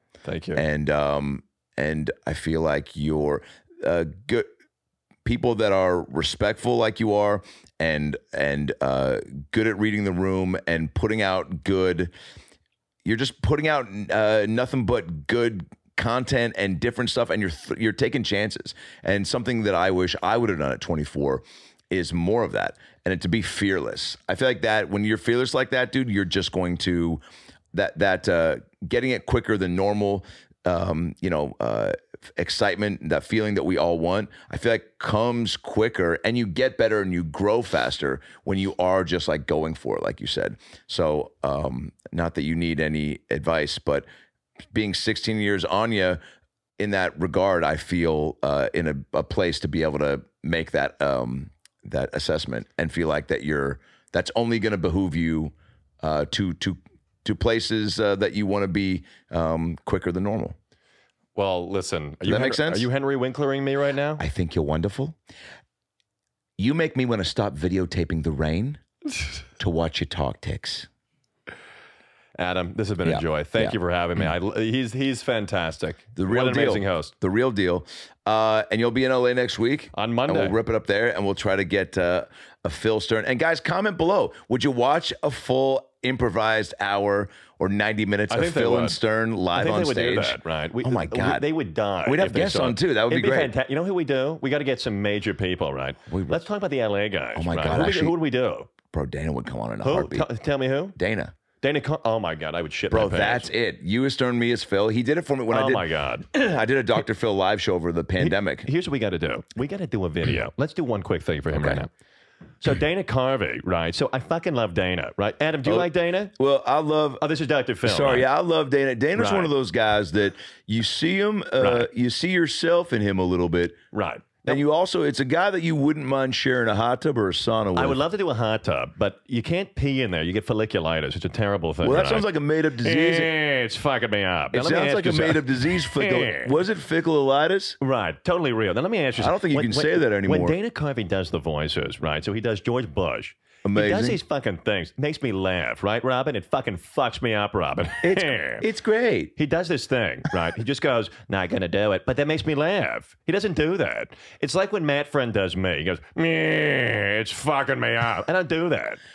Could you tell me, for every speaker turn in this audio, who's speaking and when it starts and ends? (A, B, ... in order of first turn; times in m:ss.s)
0:00.2-0:00.6 A
0:00.6-0:04.5 B
0:05.2-0:12.1 B
0:13.0-0:27.2 B
0:27.7-0:44.1 B
0:44.7-0:46.2 B
0:46.8-1:00.6 B
1:01.4-1:04.2 A
1:02.2-1:02.9 B
1:04.2-1:05.2 B
1:06.6-1:08.8 B
1:09.6-1:10.9 B
1:12.4-1:17.1 A
1:13.0-1:13.8 B
1:16.2-1:31.4 B
1:19.9-1:20.6 A
1:28.3-1:29.0 A
1:29.5-1:38.7 A
1:32.0-1:33.5 B
1:36.1-1:36.5 B
1:37.4-1:38.2 B
1:38.9-1:40.3 B
1:39.8-1:41.0 A
1:41.0-1:41.3 B
1:41.6-1:43.5 A
1:42.9-1:48.7 B
1:45.5-1:46.4 A
1:48.2-1:51.9 A
1:51.5-1:51.8 B
1:52.6-1:56.3 A
1:55.6-1:57.2 B
1:57.2-1:58.3 A
1:57.8-2:03.8 B
1:59.2-1:59.5 A
2:01.6-2:01.9 A
2:03.9-2:04.6 A
2:04.5-2:08.0 B
2:07.8-2:12.3 A
2:11.8-2:13.3 B
2:12.8-2:16.5 A
2:14.5-2:17.8 B
2:17.8-2:28.6 A
2:19.2-2:20.6 B
2:23.6-2:24.2 B
2:28.0-2:29.3 B
2:29.4-2:39.0 A